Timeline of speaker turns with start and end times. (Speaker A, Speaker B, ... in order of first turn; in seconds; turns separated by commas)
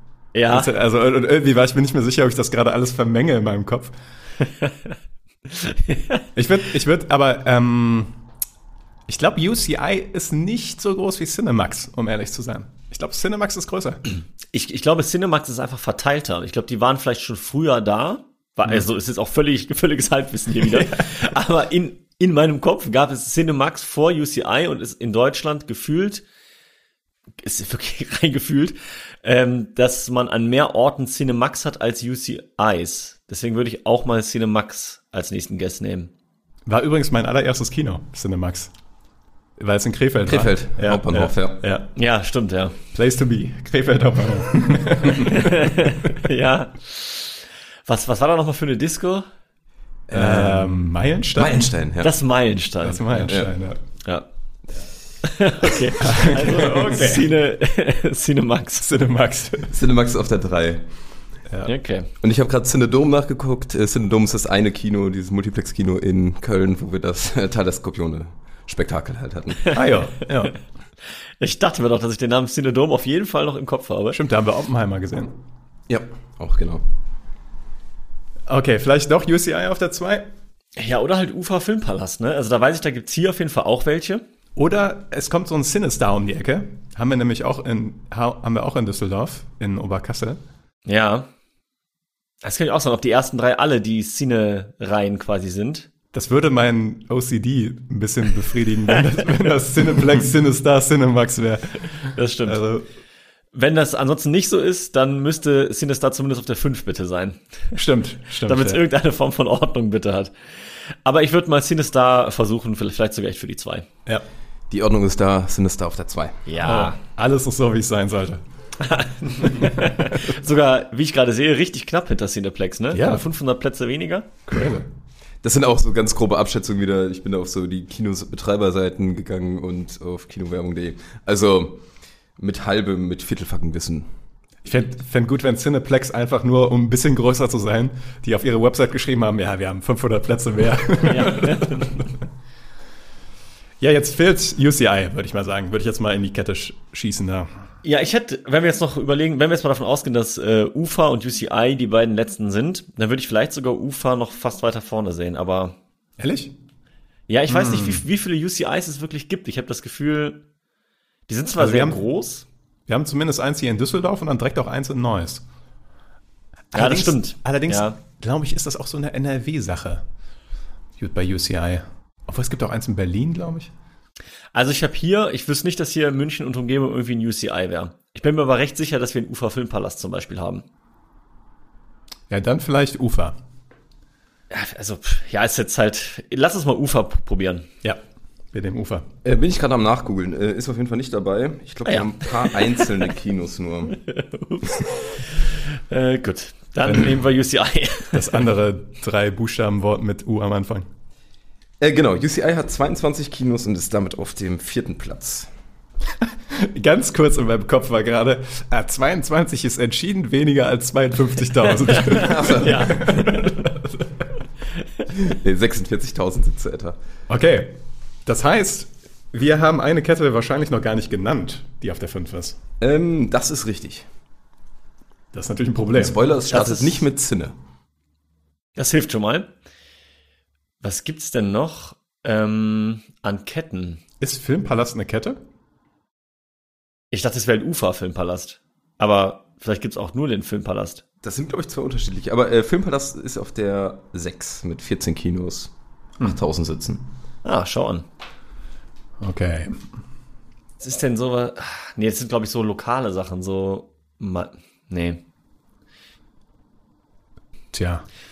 Speaker A: 0.3-0.7, Speaker B: 0.5-3.9, Speaker A: 5.5-6.2, Speaker B: 6.4-8.1, Speaker B: 9.1-14.0, Speaker A: 14.5-26.2, Speaker A: 27.4-36.1, Speaker B: 36.7-38.7, Speaker B: 39.6-41.9, Speaker C: 40.3-41.6, Speaker A: 42.0-42.8, Speaker B: 42.9-45.9, Speaker A: 45.2-49.3, Speaker C: 50.1-50.8, Speaker B: 50.1-51.7, Speaker C: 51.4-52.2, Speaker A: 52.0-53.3, Speaker B: 52.8-53.8, Speaker C: 53.2-53.5, Speaker A: 55.2-58.9, Speaker B: 56.0-57.3, Speaker B: 58.8-59.7, Speaker C: 59.7-60.9, Speaker A: 61.7-62.1, Speaker C: 62.2-69.6, Speaker B: 69.7-70.6, Speaker A: 71.4-74.2, Speaker B: 74.1-75.3, Speaker C: 75.9-76.8, Speaker B: 78.5-80.3, Speaker A: 80.8-84.2, Speaker B: 84.6-90.4, Speaker A: 90.9-91.3, Speaker A: 92.4-95.9, Speaker B: 96.1-102.8, Speaker A: 102.2-102.6, Speaker A: 103.5-107.7, Speaker B: 107.8-108.8, Speaker A: 108.5-110.3, Speaker A: 111.0-113.9, Speaker C: 114.7-116.4, Speaker A: 116.5-117.0, Speaker B: 116.6-118.4, Speaker A: 118.8-124.3, Speaker B: 119.4-120.1, Speaker B: 122.9-123.2, Speaker B: 124.5-124.9, Speaker C: 125.4-131.8, Speaker C: 132.4-134.1, Speaker B: 134.6-142.0, Speaker A: 141.1-142.0, Speaker B: 143.8-147.5, Speaker A: 147.8-155.8, Speaker B: 156.2-156.5, Speaker A: 157.3-160.4, Speaker B: 157.5-158.0, Speaker A: 161.3-162.4, Speaker B: 161.6-162.0, Speaker B: 162.9-165.4, Speaker B: 166.7-170.0, Speaker A: 166.7-168.0, Speaker B: 171.0-173.7, Speaker A: 174.5-180.6, Speaker B: 182.3-183.4, Speaker A: 184.5-187.7, Speaker B: 188.5-189.1, Speaker C: 189.2-194.0, Speaker A: 191.9-193.0, Speaker A: 194.1-198.5, Speaker B: 196.9-197.2, Speaker B: 198.1-200.9, Speaker C: 201.8-205.5, Speaker B: 206.5-214.1, Speaker C: 212.1-213.2, Speaker A: 212.6-212.9, Speaker C: 215.2-217.0, Speaker B: 217.3-222.6, Speaker C: 222.8-224.1, Speaker B: 225.3-226.2, Speaker C: 226.0-227.5, Speaker A: 226.5-227.0, Speaker A: 228.8-229.5, Speaker A: 230.8-234.0, Speaker B: 234.2-235.4, Speaker A: 237.1-241.0, Speaker C: 241.2-247.0, Speaker A: 247.4-248.1, Speaker B: 249.2-249.8, Speaker A: 250.8-255.2, Speaker B: 257.7-258.1